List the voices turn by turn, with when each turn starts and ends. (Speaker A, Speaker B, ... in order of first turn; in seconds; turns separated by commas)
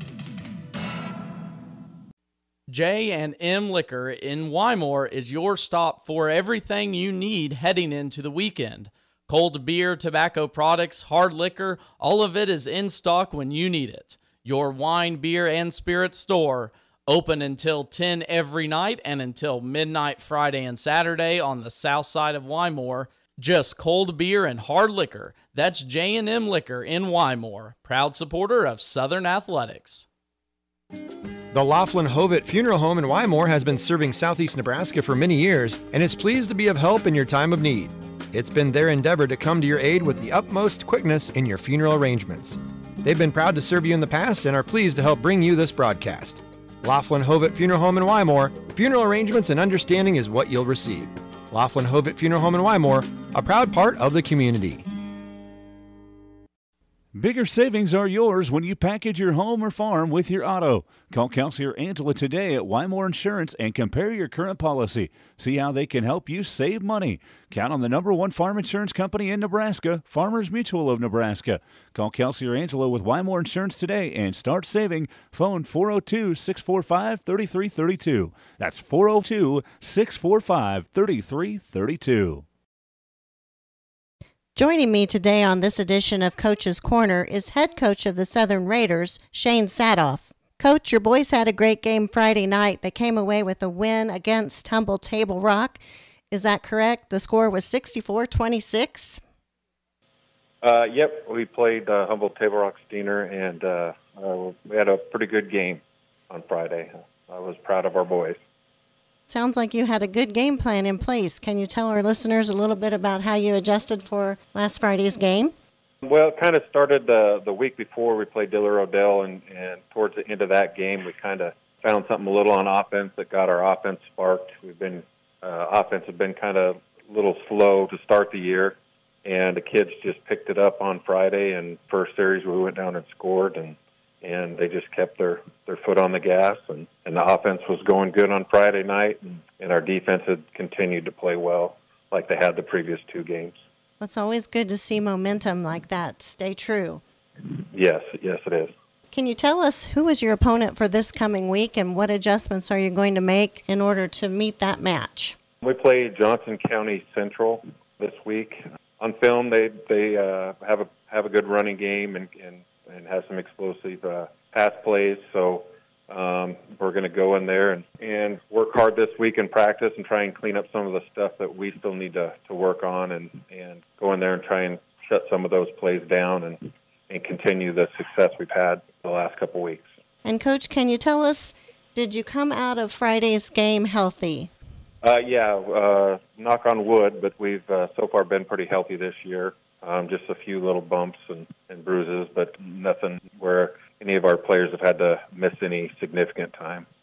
Speaker A: 2.7-30.1, Speaker B: 31.5-54.8, Speaker C: 57.1-82.5, Speaker D: 84.5-99.2, Speaker E: 100.6-108.4, Speaker D: 109.3-115.5, Speaker E: 116.0-143.6, Speaker D: 144.0-147.0, Speaker E: 147.7-148.7, Speaker D: 149.1-155.4, Speaker E: 155.6-179.9, Speaker D: 180.2-184.5, Speaker E: 185.0-196.9